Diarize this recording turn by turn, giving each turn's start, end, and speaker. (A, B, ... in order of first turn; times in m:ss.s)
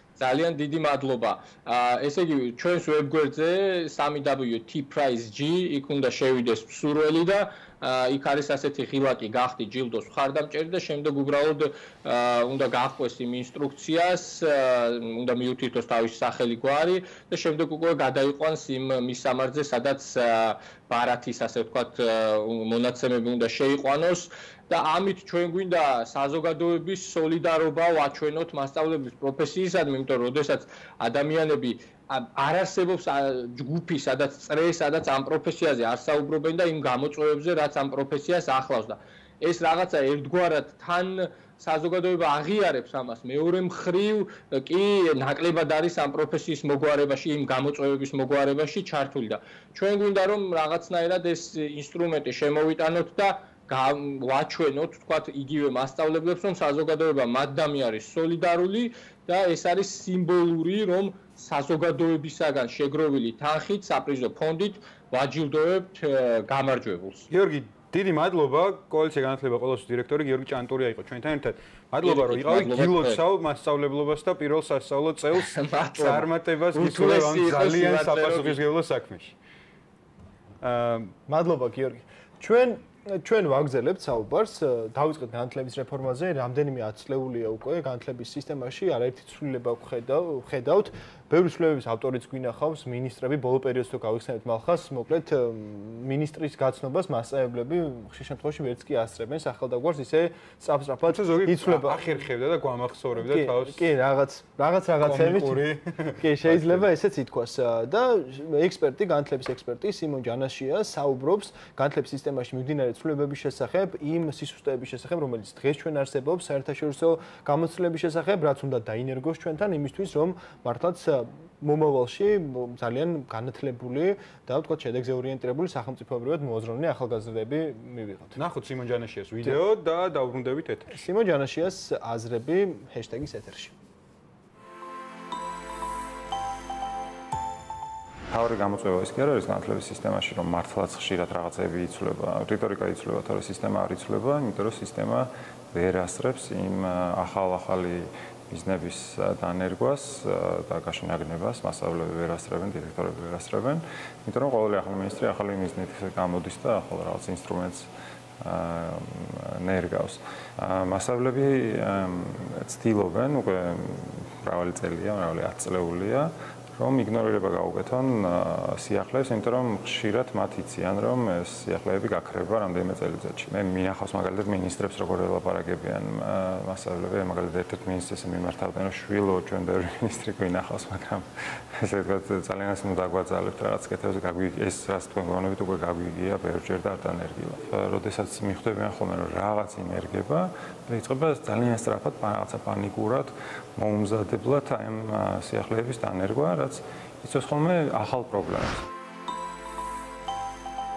0:00.2-1:07.3 A
1:07.3-1:19.3 B
1:12.0-1:13.2 A
1:15.3-1:18.6 A
1:20.6-1:21.1 B
1:21.3-1:42.0 C
1:41.1-1:43.9 B
1:43.2-2:08.4 C
1:45.0-1:46.9 B
2:08.4-2:10.9 B
2:10.9-2:13.7 C
2:18.3-2:37.9 D
2:38.4-3:18.9 D